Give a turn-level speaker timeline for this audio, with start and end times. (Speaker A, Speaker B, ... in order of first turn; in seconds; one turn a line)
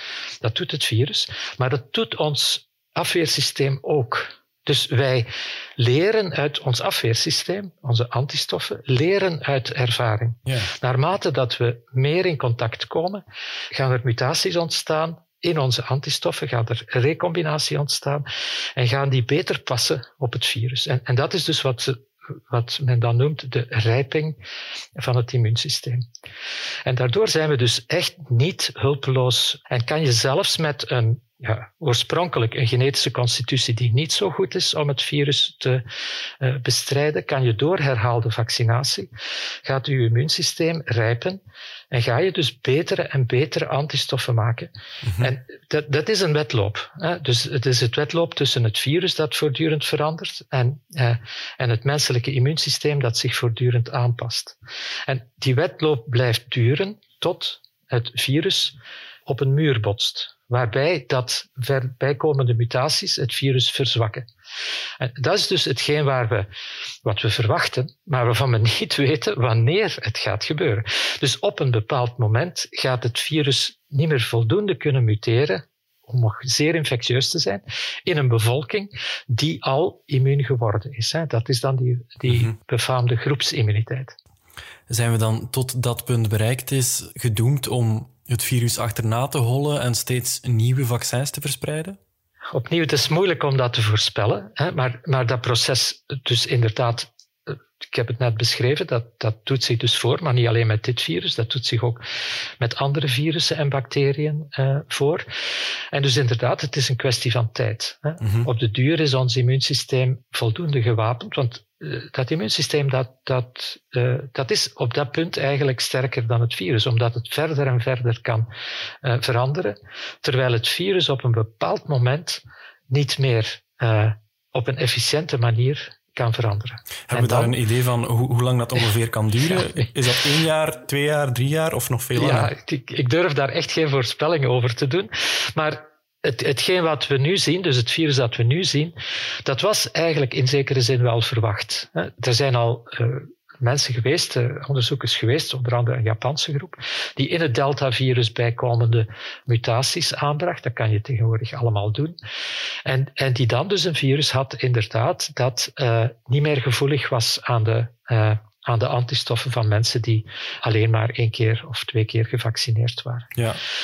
Speaker A: 0.4-18.2
Speaker A: 18.8-24.4
Speaker A: 24.9-26.0
Speaker A: 26.9-35.8
Speaker A: 36.4-39.1
Speaker A: 39.6-64.3
Speaker A: 65.0-66.5
Speaker A: 67.0-84.1
Speaker B: 84.9-92.0
Speaker A: 92.5-97.1
Speaker A: 97.8-102.0
Speaker A: 102.6-105.2
Speaker A: 105.9-118.5
Speaker B: 108.2-108.5
Speaker A: 119.0-127.5
Speaker B: 127.1-132.5
Speaker A: 132.1-152.2
Speaker A: 152.8-163.3